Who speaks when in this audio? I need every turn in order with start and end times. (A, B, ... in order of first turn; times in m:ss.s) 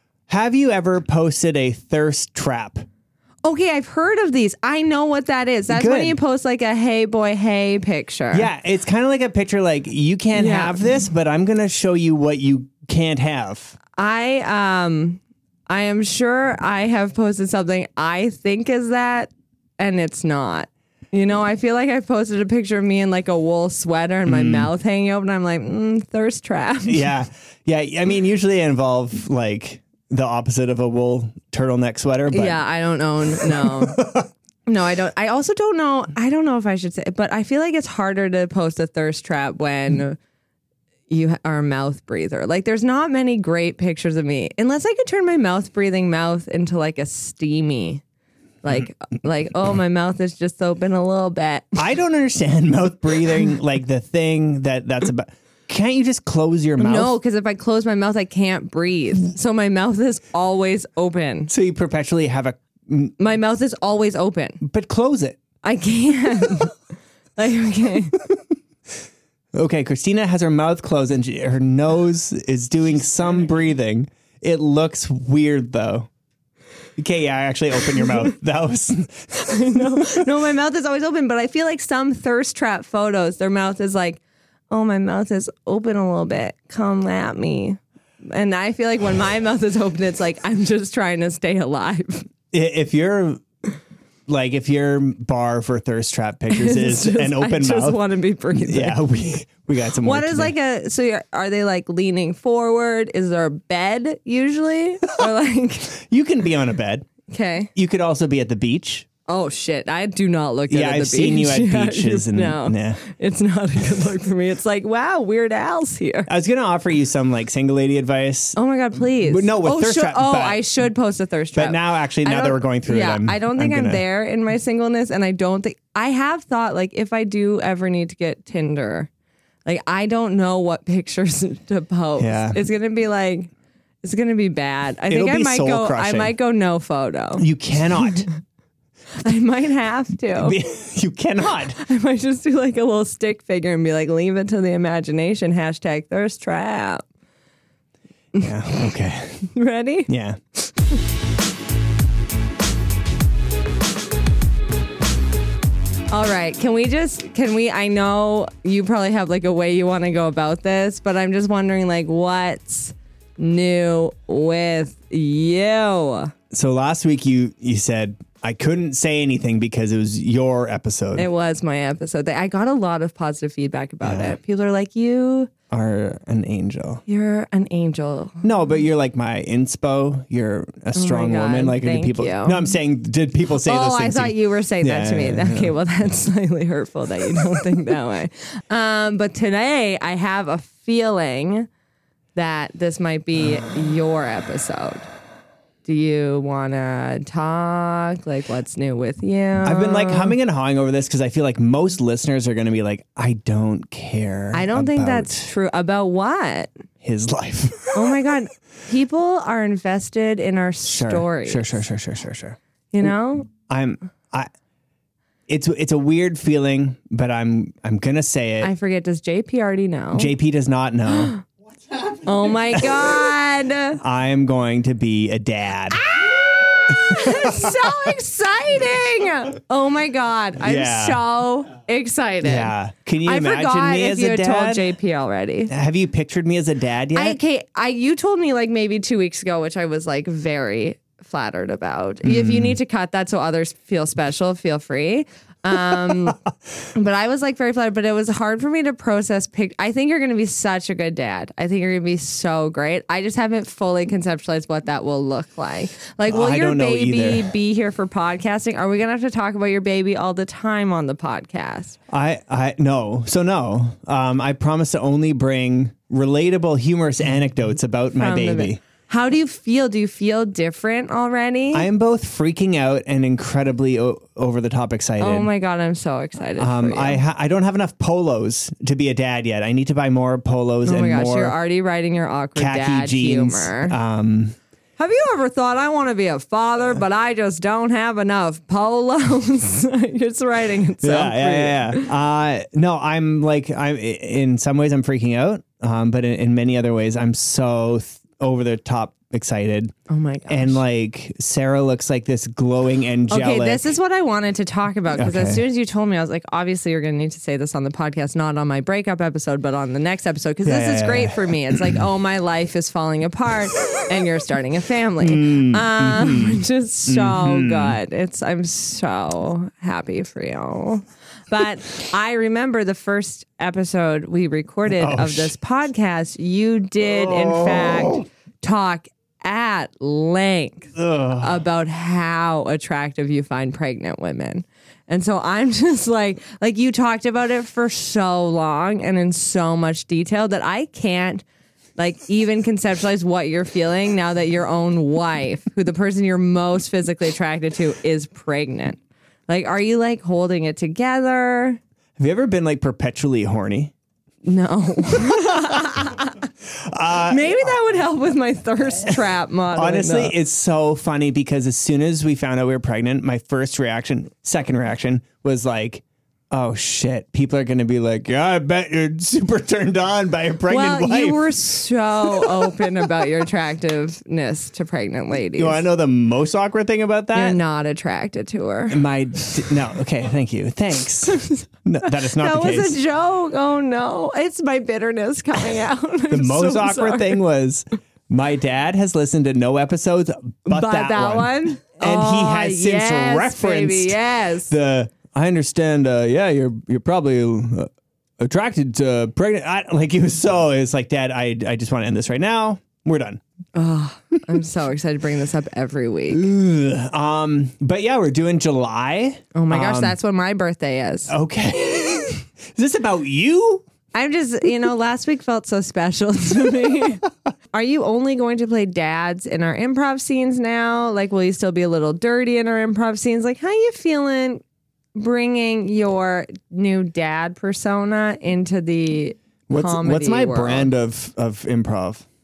0:00.3-0:02.8 A
0:03.4-0:08.5 B
0:05.7-0:06.2 A
0:08.3-0:13.8 A
0:10.3-0:10.8 B
0:14.0-0:27.0 B
0:24.2-0:24.7 A
0:26.8-0:32.6 A
0:32.3-0:34.0 B
0:33.4-0:34.3 A
0:34.6-0:40.2 B
0:41.1-0:48.0 B
0:48.6-0:51.8 B
0:51.8-0:57.2 A
0:56.8-1:01.5 B
1:01.5-1:03.2 A
1:03.2-1:04.6 B
1:04.6-1:05.4 A
1:05.6-1:06.8 B
1:07.4-1:08.2 B
1:09.5-1:16.1 A
1:17.0-1:20.3 A
1:19.4-1:32.2 B
1:32.5-1:33.4 A
1:34.3-1:38.0 A
1:36.5-1:39.0 B
1:38.6-1:40.5 A
1:40.0-1:45.9 B
1:45.9-1:47.1 A
1:47.3-1:47.7 B
1:47.7-1:49.1 A
1:49.3-1:56.3 B
1:50.7-1:53.0 A
1:56.3-1:58.6 A
1:58.6-2:09.1 B
1:59.2-2:00.6 A
2:01.5-2:04.0 A
2:09.6-2:13.5 B
2:12.2-2:12.6 A
2:14.0-2:17.5 B
2:15.1-2:16.3 A
2:17.4-2:18.3 A
2:19.2-2:20.6 B
2:20.4-2:21.8 A
2:21.8-2:27.0 B
2:28.4-2:29.5 A
2:29.5-2:30.1 B
2:30.1-2:30.4 A
2:36.1-2:46.3 B
2:46.5-2:51.3 A
2:51.2-2:55.5 B
2:54.0-2:54.4 A
2:55.7-2:57.0 A
2:57.1-2:58.4 B
2:58.4-3:05.7 A
3:00.9-3:02.6 B
3:03.6-3:11.7 B
3:12.3-3:15.1 B
3:15.8-3:20.3 B
3:19.6-3:25.5 A
3:24.5-3:26.7 B
3:27.0-3:28.2 A
3:27.9-3:31.8 B
3:30.8-3:32.6 A
3:32.9-3:33.5 B
3:33.7-3:34.5 A
3:35.5-3:38.7 A
3:38.6-3:40.3 B
3:40.1-3:41.3 A
3:41.1-3:41.4 B
3:42.2-3:44.0 B
3:42.7-3:43.0 A
3:44.0-3:46.0 A
3:46.0-3:52.7 B
3:46.9-3:48.0 A
3:50.6-3:51.2 A
3:52.4-3:54.9 A
3:53.2-3:55.7 B
3:55.7-3:57.4 A
3:57.1-4:06.4 B
4:02.2-4:02.8 A
4:06.9-4:22.0 B
4:16.2-4:17.5 A
4:22.1-4:28.8 A
4:28.1-4:31.9 B
4:31.7-4:35.5 A
4:35.2-4:37.2 B
4:36.6-4:41.5 A
4:40.8-4:43.9 B
4:42.6-4:44.6 A
4:45.0-4:52.1 B
4:51.0-4:59.9 A
5:00.1-5:00.8 B
5:00.5-5:03.9 A
5:03.3-5:41.4 B
5:05.1-5:05.6 A
5:10.6-5:12.0 A
5:15.2-5:18.0 A
5:24.9-5:25.5 A
5:27.0-5:28.2 A
5:31.0-5:31.6 A
5:42.0-5:51.8 B
5:52.2-5:53.9 A
5:54.4-5:56.4 B
5:55.2-5:55.8 A
5:56.8-5:57.7 A
5:57.2-6:00.3 B
5:59.7-6:11.5 A
6:10.7-6:15.8 B
6:12.3-6:12.9 A
6:15.5-6:17.6 A
6:17.3-6:19.0 B
6:18.9-6:23.0 A
6:21.3-6:27.4 B
6:26.3-6:34.2 A
6:30.7-6:34.7 B
6:34.7-6:43.4 A
6:43.7-6:46.5 B
6:46.3-6:50.1 A
6:49.5-6:51.3 B
6:51.3-6:53.8 A
6:54.1-7:04.6 B
7:05.1-7:10.9 B
7:09.7-7:12.2 A